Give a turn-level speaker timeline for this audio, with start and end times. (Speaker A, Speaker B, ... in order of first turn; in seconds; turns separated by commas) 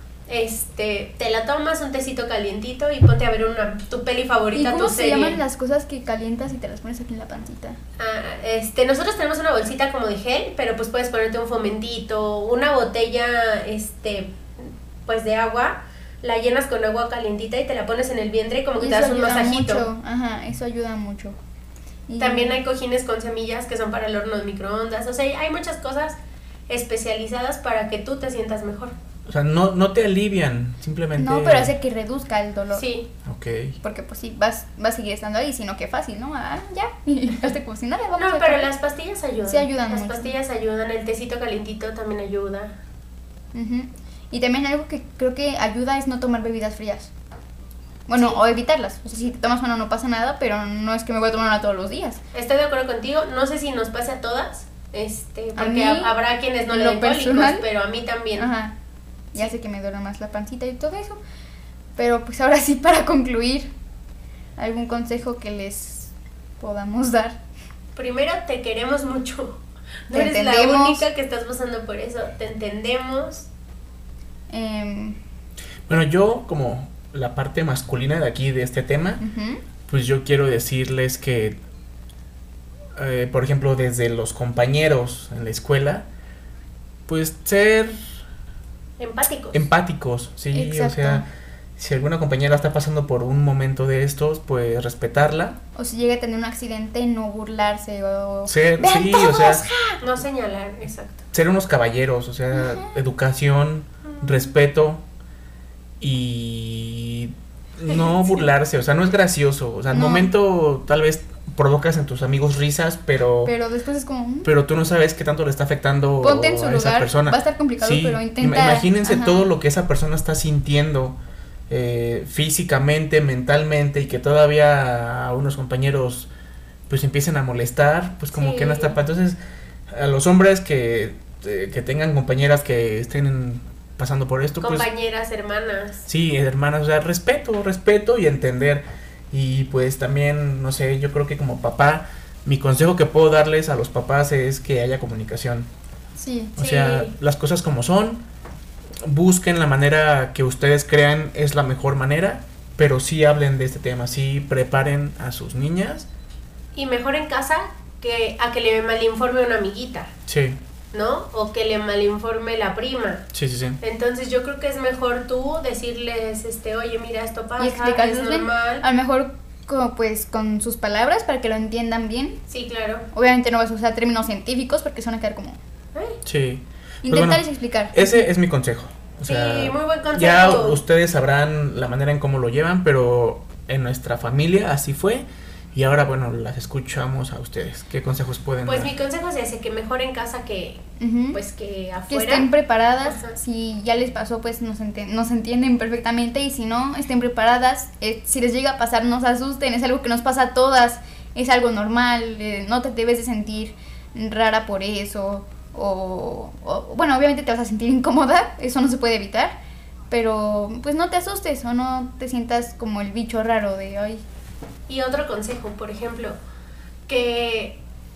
Speaker A: 0.3-5.4, Speaker B: 4.5-7.8, Speaker A: 8.0-19.8, Speaker B: 18.8-21.4, Speaker B: 22.1-22.6, Speaker A: 22.2-26.2, Speaker A: 26.7-28.9, Speaker C: 29.3-31.7, Speaker B: 31.1-32.9, Speaker A: 32.7-33.1, Speaker C: 33.2-33.8, Speaker B: 33.8-38.7, Speaker A: 38.2-42.8, Speaker B: 39.5-40.3, Speaker B: 43.5-47.1, Speaker B: 48.1-52.2, Speaker A: 52.3-58.5, Speaker B: 55.6-56.1, Speaker B: 56.7-57.6, Speaker B: 58.4-58.8, Speaker B: 59.3-61.2, Speaker B: 62.0-63.7, Speaker B: 64.6-67.4, Speaker A: 68.0-73.5, Speaker B: 70.1-71.1, Speaker B: 74.5-75.2, Speaker C: 75.9-79.2, Speaker B: 79.2-79.6, Speaker C: 79.9-81.6, Speaker C: 83.0-86.1, Speaker C: 87.1-88.0, Speaker A: 89.0-89.6, Speaker C: 89.5-91.3, Speaker B: 90.5-91.2, Speaker C: 91.8-95.6, Speaker B: 95.8-100.0, Speaker C: 98.5-99.6, Speaker A: 100.0-101.2, Speaker C: 101.3-105.0, Speaker B: 102.5-103.0, Speaker C: 106.0-113.5, Speaker B: 109.9-110.3, Speaker B: 113.4-114.5, Speaker C: 114.4-121.2, Speaker B: 116.2-119.5, Speaker C: 121.7-126.3, Speaker C: 126.9-129.4, Speaker A: 128.3-128.9, Speaker C: 129.9-134.9, Speaker A: 134.6-136.0, Speaker C: 136.1-145.7, Speaker B: 146.2-146.6, Speaker C: 146.6-148.2, Speaker A: 146.6-147.1, Speaker C: 149.0-156.1, Speaker A: 156.7-160.1, Speaker C: 160.3-160.6, Speaker A: 160.9-163.3, Speaker C: 163.3-163.8, Speaker A: 163.8-168.8, Speaker B: 167.6-172.4, Speaker A: 172.5-173.1, Speaker B: 173.1-175.6, Speaker A: 175.9-176.2, Speaker C: 176.2-188.9, Speaker B: 177.0-178.3, Speaker A: 179.3-180.8, Speaker A: 188.7-190.8, Speaker B: 191.0-191.4, Speaker A: 191.3-192.5, Speaker B: 192.1-209.6, Speaker A: 193.1-193.3, Speaker B: 210.1-214.2, Speaker A: 214.9-216.4, Speaker A: 217.1-217.8